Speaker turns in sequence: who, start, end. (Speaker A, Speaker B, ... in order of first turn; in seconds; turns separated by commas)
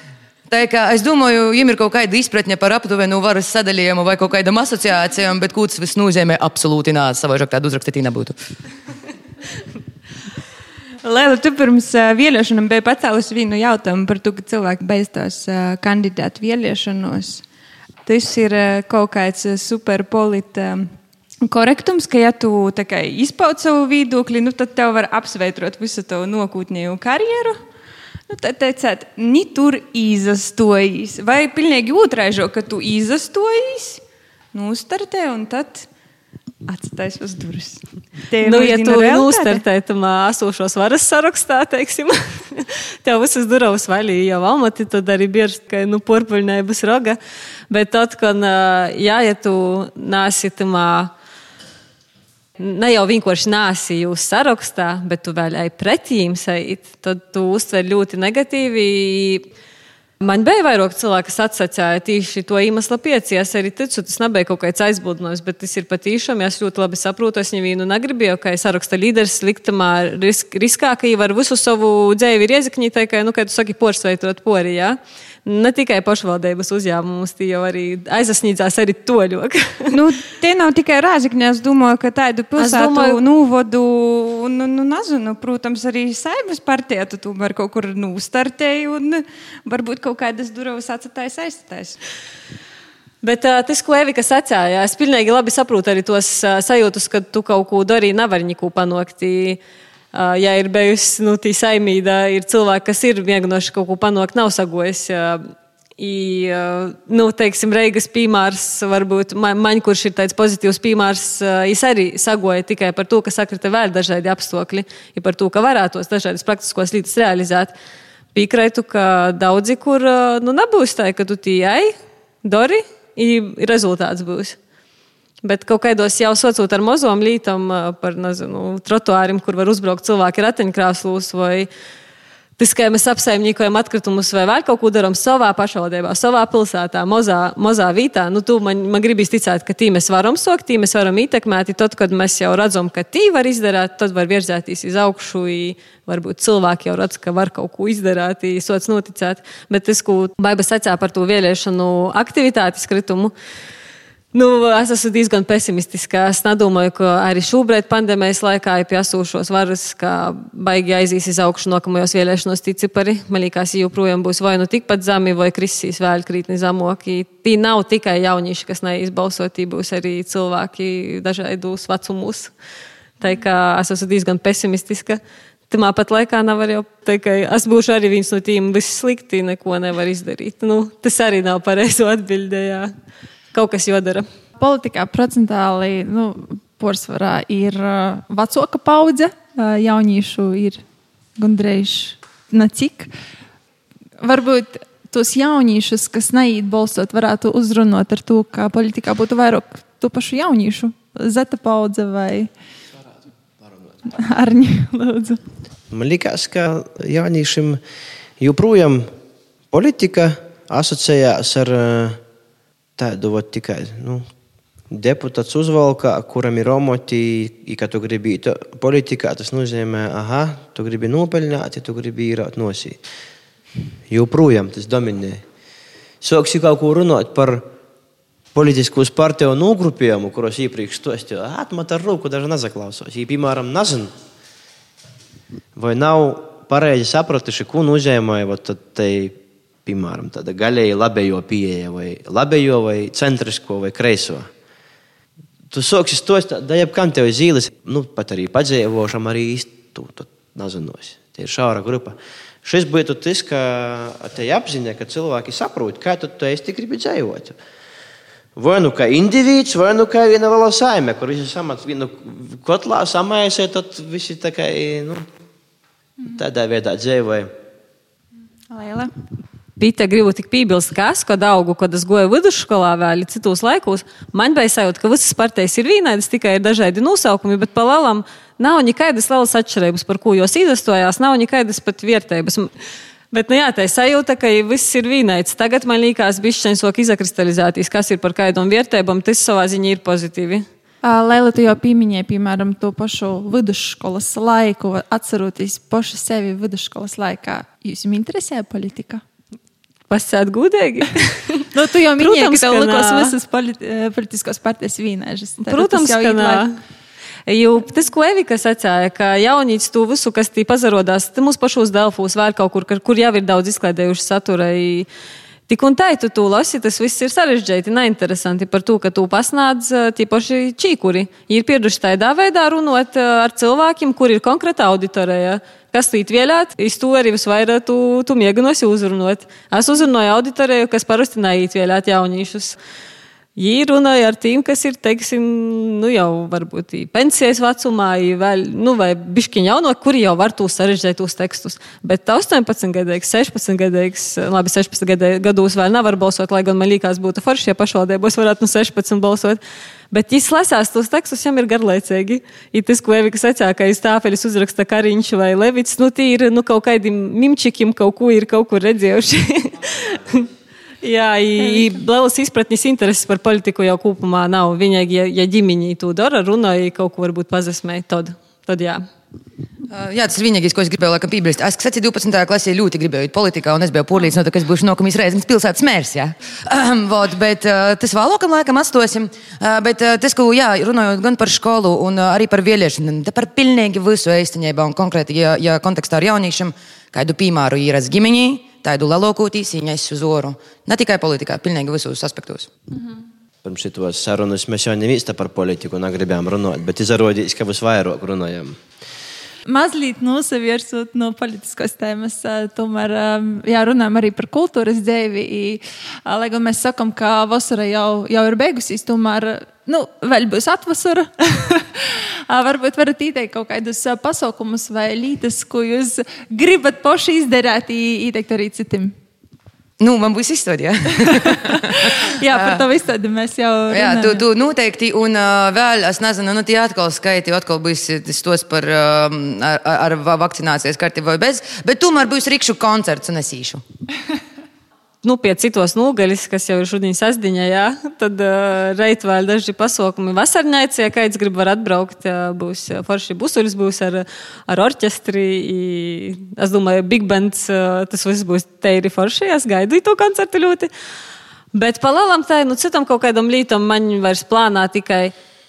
Speaker A: 0.5-8.3, Speaker B: 11.0-17.4, Speaker B: 18.1-20.9, Speaker B: 21.4-27.6, Speaker B: 28.3-34.0, Speaker B: 34.5-35.9, Speaker B: 36.7-39.6, Speaker C: 38.4-47.2, Speaker C: 47.7-51.1, Speaker C: 52.6-59.4, Speaker C: 60.2-79.9, Speaker B: 79.9-92.0, Speaker C: 82.6-83.2, Speaker C: 93.2-99.6, Speaker C: 100.1-117.7, Speaker C: 118.3-121.9, Speaker C: 122.4-124.6, Speaker C: 125.4-131.7, Speaker C: 132.6-153.3, Speaker C: 154.3-172.5, Speaker C: 173.2-182.9, Speaker C: 183.5-184.3, Speaker D: 184.6-190.8, Speaker D: 191.4-193.1, Speaker D: 194.2-202.5, Speaker D: 204.2-205.4, Speaker E: 205.9-207.8, Speaker E: 208.4-209.1, Speaker E: 209.7-212.2, Speaker E: 213.0-214.2, Speaker E: 214.9-223.0, Speaker E: 224.1-225.4, Speaker E: 226.2-227.7, Speaker E: 228.5-234.1, Speaker E: 235.8-244.5, Speaker E: 245.7-257.6, Speaker E: 258.6-265.2, Speaker E: 266.2-267.5, Speaker D: 268.7-269.1, Speaker C: 269.8-282.7, Speaker C: 283.3-290.6, Speaker D: 291.0-299.2, Speaker C: 300.1-301.7, Speaker D: 301.7-306.6, Speaker C: 302.2-303.3, Speaker C: 305.6-306.8, Speaker C: 307.5-315.1, Speaker C: 315.7-332.8, Speaker C: 333.6-349.6, Speaker C: 350.1-360.5, Speaker C: 361.0-369.0, Speaker D: 361.6-362.0, Speaker A: 369.9-392.7, Speaker E: 393.6-398.8, Speaker D: 399.6-419.1, Speaker A: 420.0-422.9, Speaker D: 421.7-424.4, Speaker A: 423.9-433.8, Speaker C: 435.2-450.9, Speaker C: 451.7-455.3